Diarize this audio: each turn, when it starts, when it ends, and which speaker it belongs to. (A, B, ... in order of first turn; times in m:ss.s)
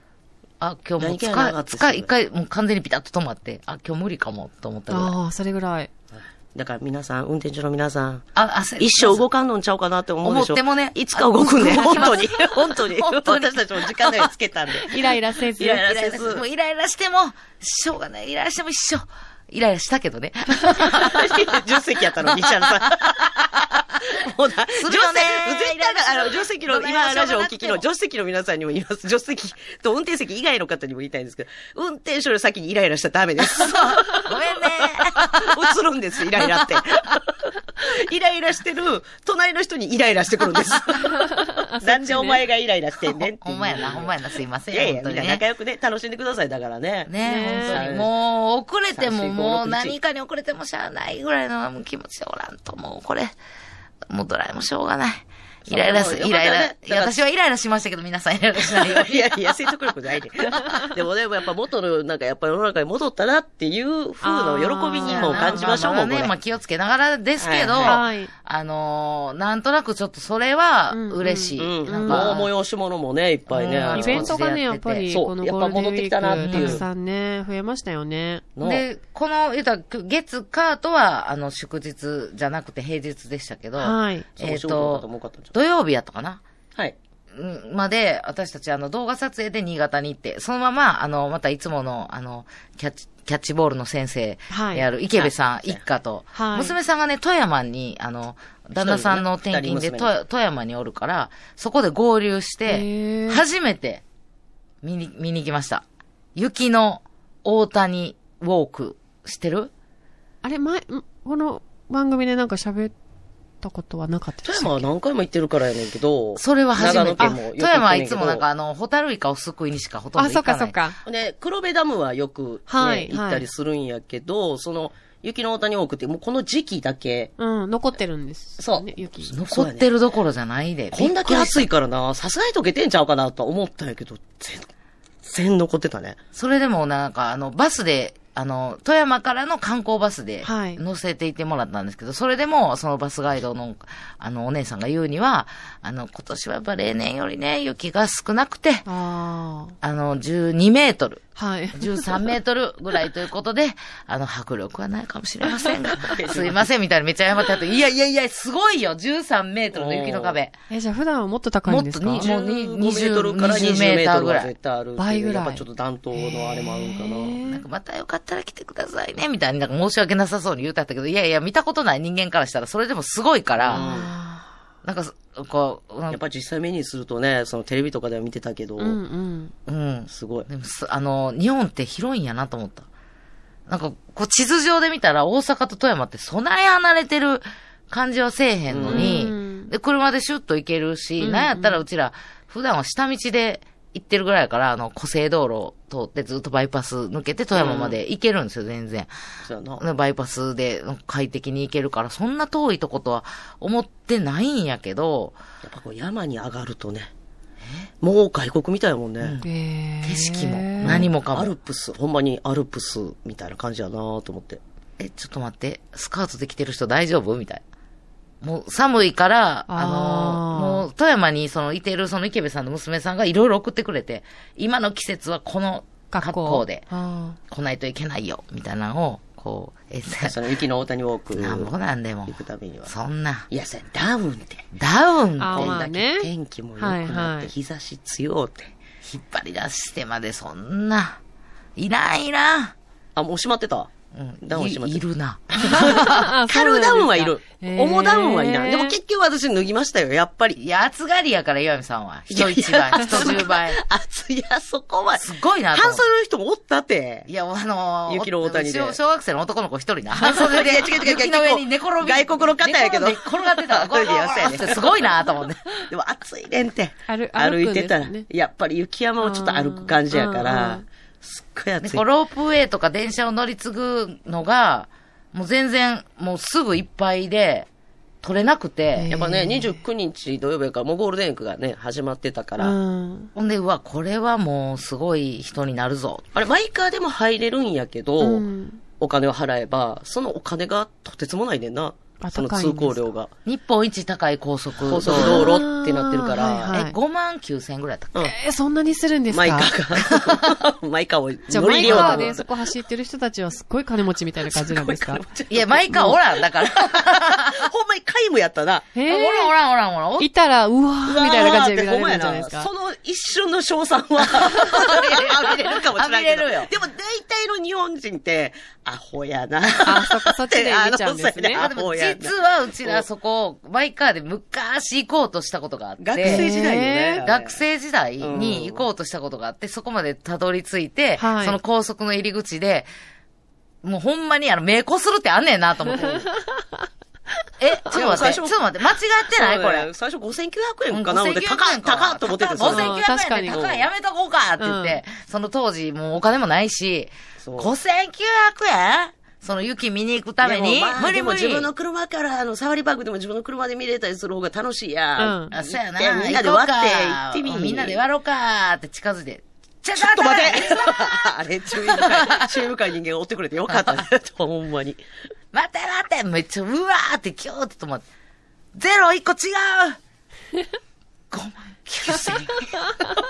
0:00.6-0:05.1 A
0:01.0-0:02.1 B
0:04.9-0:05.9 C
0:06.1-0:08.2 B
0:08.3-0:09.2 A
0:08.8-0:15.0 B
0:10.2-0:14.3 A
0:14.8-0:15.9 C
0:15.6-0:16.4 B
0:15.8-0:21.6 A
0:20.8-0:44.1 B
0:22.2-0:23.1 A
0:24.8-0:27.8 A
0:33.4-0:35.7 A
0:36.3-0:36.8 A
0:41.1-0:42.4 C
0:43.1-0:45.4 A
0:44.7-0:48.1 B
0:47.1-0:53.3 A
0:47.2-0:47.8 C
0:48.9-0:50.0 B
0:54.1-0:59.5 A
0:55.6-0:57.2 B
0:58.6-1:06.3 B
1:04.2-1:05.8 C
1:05.0-1:12.5 A
1:07.4-1:08.0 B
1:07.8-1:08.3 C
1:10.9-1:12.4 C
1:11.6-1:14.3 B
1:13.5-1:15.1 A
1:13.9-1:18.5 C
1:15.1-1:16.8 B
1:16.4-1:16.8 A
1:18.6-1:18.8 B
1:18.6-1:26.4 A
1:23.8-1:24.3 C
1:24.4-1:25.5 B
1:27.3-1:44.0 A
1:34.5-1:34.8 C
1:35.2-1:35.8 B
1:36.3-1:36.8 C
1:38.8-1:40.1 B
1:42.7-1:43.4 C
1:44.8-1:45.8 A
1:46.3-1:49.7 A
1:50.4-1:52.9 C
1:53.6-1:54.8 C
1:54.4-1:58.4 B
1:56.4-2:00.8 A
2:00.2-2:01.0 C
2:01.0-2:07.3 B
2:02.7-2:03.5 C
2:07.4-2:09.4 C
2:08.6-2:09.9 B
2:09.3-2:11.7 A
2:10.9-2:14.7 B
2:15.2-2:16.2 B
2:16.3-2:28.8 A
2:20.4-2:20.8 C
2:28.8-2:29.8 C
2:29.8-2:40.5 A
2:31.4-2:32.2 C
2:36.0-2:36.7 B
2:39.7-2:40.4 B
2:40.7-2:42.3 C
2:41.6-2:44.5 A
2:42.2-2:47.4 B
2:45.0-2:47.6 C
2:47.4-2:53.9 A
2:53.6-2:54.1 B
2:53.7-2:54.4 C
2:54.8-2:56.2 A
2:56.1-2:59.0 B
2:58.8-2:59.5 C
2:59.7-3:02.9 A
3:00.1-3:00.5 B
3:03.7-3:19.1 A
3:08.7-3:09.2 B
3:08.9-3:09.7 C
3:11.2-3:11.8 C
3:17.5-3:18.0 B
3:19.4-3:19.8 B
3:19.8-3:25.4 A
3:25.6-3:27.1 B
3:28.0-3:29.4 B
3:29.2-3:29.5 A
3:29.4-3:31.0 C
3:30.0-3:31.5 A
3:30.8-3:34.6 B
3:35.0-3:37.6 A
3:38.4-3:46.8 A
3:39.7-3:40.9 C
3:46.1-3:47.4 C
3:47.5-3:50.4 A
3:50.2-3:51.7 B
3:51.4-3:53.5 A
3:52.3-3:52.9 B
3:53.5-3:54.6 B
3:54.8-3:55.8 A
3:55.4-3:57.5 C
3:55.5-3:58.7 B
3:59.0-4:01.2 A
4:01.8-4:02.8 A
4:03.2-4:03.9 B
4:04.1-4:06.3 A
4:04.4-4:10.6 B
4:05.6-4:09.0 C
4:10.6-4:13.8 A
4:12.3-4:17.3 B
4:13.0-4:13.4 C
4:15.2-4:16.0 A
4:17.3-4:25.6 A
4:18.1-4:19.0 B
4:20.2-4:25.0 B
4:25.9-4:32.0 B
4:27.1-4:28.2 C
4:29.2-4:30.8 C
4:31.8-4:37.7 A
4:38.2-4:39.1 A
4:39.0-4:39.8 C
4:39.1-4:42.8 B
4:42.6-4:43.3 C
4:43.4-4:46.3 A
4:46.3-4:48.5 B
4:48.2-4:48.8 C
4:49.0-4:53.3 B
4:52.2-4:53.0 C
4:53.5-4:55.5 A
4:54.8-4:56.8 B
4:55.0-4:57.0 C
4:56.7-4:58.2 A
4:58.2-4:59.7 C
4:59.3-5:02.5 B
5:00.1-5:00.6 A
5:01.5-5:05.2 C
5:01.8-5:02.4 A
5:04.5-5:08.9 B
5:05.5-5:07.6 A
5:05.9-5:06.2 C
5:08.9-5:09.5 C
5:09.1-5:10.3 A
5:10.2-5:12.7 C
5:11.0-5:23.0 B
5:14.5-5:16.7 A
5:19.8-5:21.6 C
5:21.5-5:26.5 A
5:26.0-5:27.6 B
5:26.2-5:27.2 C
5:27.2-5:32.9 A
5:28.2-5:28.9 B
5:31.2-5:31.6 C
5:33.8-5:36.3 A
5:37.6-5:39.9 A
5:37.9-5:38.6 B
5:39.3-5:43.0 B
5:40.9-5:51.7 A
5:42.6-5:43.6 C
5:43.5-5:43.8 B
5:44.6-5:45.0 C
5:47.4-5:47.7 B
5:50.4-5:58.0 B
5:55.2-5:55.5 C
5:55.5-6:01.3 A
6:00.0-6:05.0 B
6:01.8-6:02.5 A
6:03.7-6:04.0 A
6:05.5-6:08.0 A
6:08.7-6:10.0 A
6:11.3-6:12.7 A